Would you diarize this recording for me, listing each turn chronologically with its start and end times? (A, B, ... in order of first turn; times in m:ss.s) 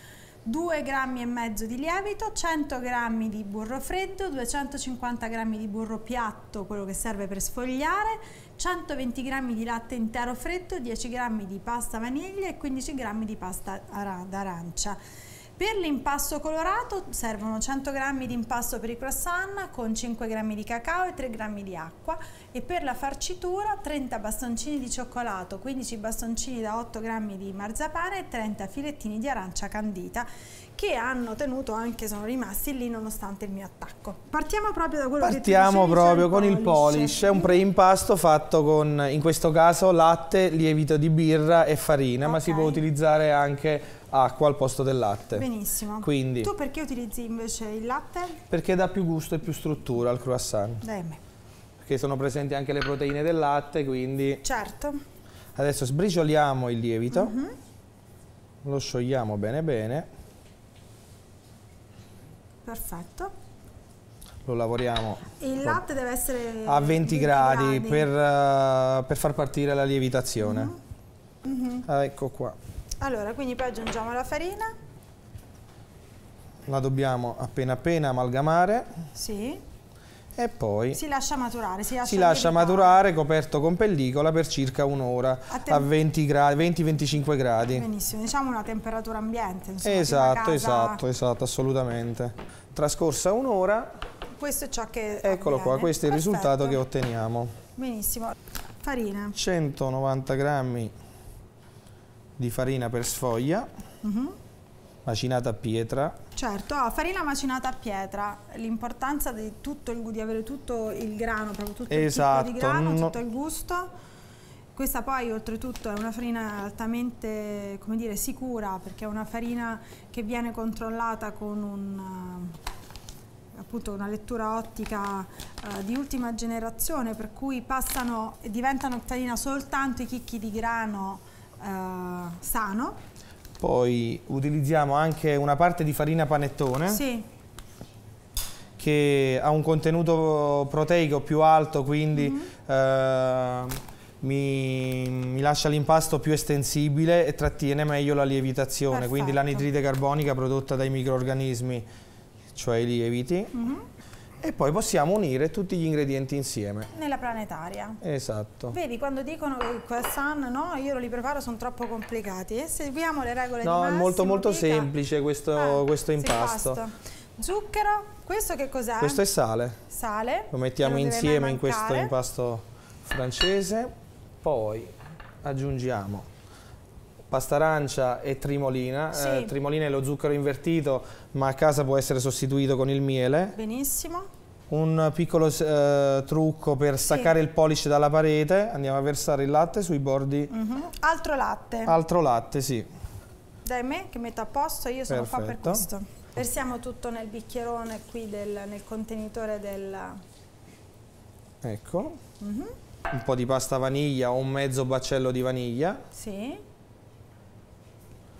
0:00.4-0:15.0 A
0:15.6-0:37.6 A
0:35.2-0:45.4 B
0:42.2-0:42.8 A
0:45.3-0:48.4 A
0:46.0-0:46.5 B
0:48.5-0:50.8 B
0:50.8-0:51.2 A
0:51.8-0:54.4 B
0:54.4-0:55.0 A
0:55.6-0:57.3 B
0:57.1-0:57.6 A
0:58.6-1:00.1 B
1:02.6-1:03.3 A
1:04.4-1:05.8 B
1:05.4-1:08.1 A
1:06.6-1:10.7 B
1:10.4-1:10.8 A
1:11.4-1:11.8 A
1:11.8-1:12.6 B
1:13.0-1:14.7 A
1:16.6-1:18.9 B
1:19.1-1:19.6 A
1:20.4-1:21.0 B
1:20.9-1:23.0 A
1:22.0-1:27.8 B
1:25.5-1:25.9 A
1:27.7-1:31.0 A
1:29.8-1:33.9 B
1:34.4-1:36.8 A
1:35.2-1:37.5 B
1:37.8-1:39.4 A
1:39.3-1:40.9 B
1:42.4-1:43.7 B
1:44.0-1:44.4 A
1:45.0-1:46.1 B
1:46.3-1:53.9 A
1:51.9-1:53.1 B
1:54.7-2:02.6 A
2:03.6-2:13.0 A
2:13.6-2:17.0 B
2:16.9-2:17.3 A
2:18.8-2:31.8 B
2:22.1-2:22.5 A
2:28.9-2:29.7 A
2:32.5-2:33.5 B
2:33.5-2:33.8 A
2:34.4-2:36.9 B
2:36.9-2:38.0 A
2:38.0-2:38.8 B
2:38.7-2:44.9 A
2:43.6-2:46.8 B
2:45.5-2:49.2 A
2:49.0-2:49.8 B
2:49.9-2:52.1 A
2:50.5-2:53.9 B
2:54.4-2:56.3 B
2:57.3-3:03.6 B
2:59.1-2:59.5 A
3:03.5-3:04.3 A
3:04.7-3:10.5 B
3:07.0-3:07.3 A
3:10.5-3:12.0 A
3:11.8-3:12.9 B
3:13.6-3:20.2 A
3:15.1-3:15.8 B
3:21.6-3:22.2 B
3:22.4-3:22.7 A
3:23.1-3:26.0 B
3:26.1-3:26.6 A